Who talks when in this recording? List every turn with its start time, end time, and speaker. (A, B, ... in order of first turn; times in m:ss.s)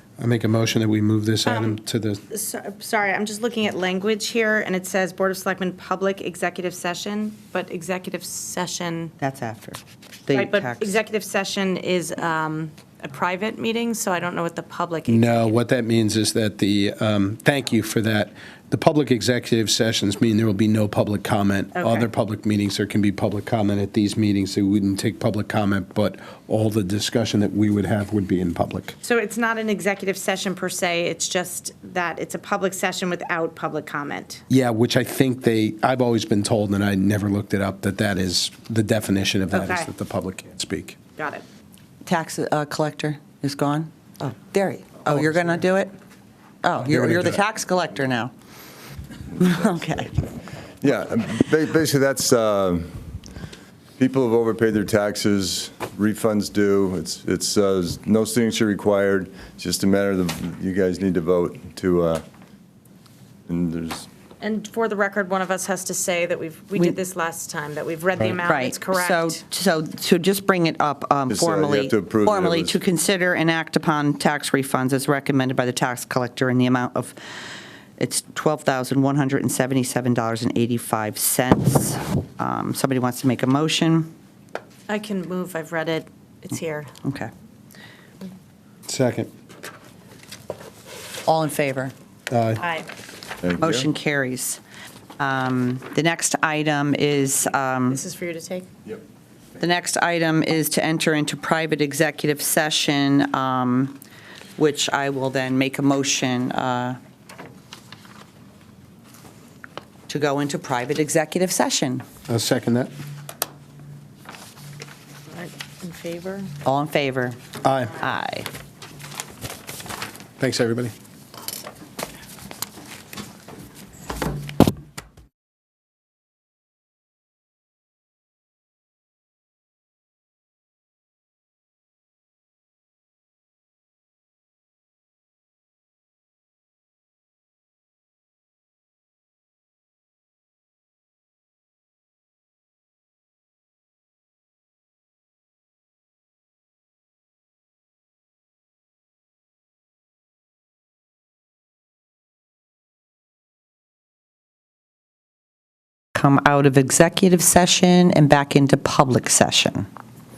0:00.2-0:02.2 A
0:01.4-0:01.8 B
0:02.3-0:09.1 B
0:09.2-0:11.0 C
0:10.3-0:15.6 B
0:15.1-0:28.9 A
0:21.7-0:22.1 B
0:29.0-0:34.4 B
0:34.5-0:41.0 A
0:39.5-0:39.9 B
0:41.2-0:41.4 B
0:42.0-0:45.9 C
0:46.6-0:48.3 C
0:46.8-0:47.4 A
0:49.4-0:50.2 C
0:50.8-0:53.0 D
0:54.0-1:02.2 D
1:03.5-1:04.1 D
1:04.4-1:09.4 B
1:08.4-1:17.2 C
1:11.3-1:12.8 D
1:18.0-1:24.1 C
1:24.9-1:26.9 B
1:27.0-1:27.3 C
1:28.9-1:29.3 A
1:31.2-1:31.9 C
1:32.3-1:32.6 A
1:32.6-1:32.9 B
1:33.4-1:33.9 D
1:33.6-1:34.6 C
1:35.2-1:38.0 C
1:37.9-1:38.7 B
1:39.6-1:44.0 C
1:44.6-1:47.0 C
1:50.1-1:52.0 C
1:52.3-1:52.9 A
1:55.3-1:56.5 B
1:56.6-1:58.5 C
1:57.6-1:58.0 A
2:00.4-2:00.9 A
2:36.1-2:39.9 C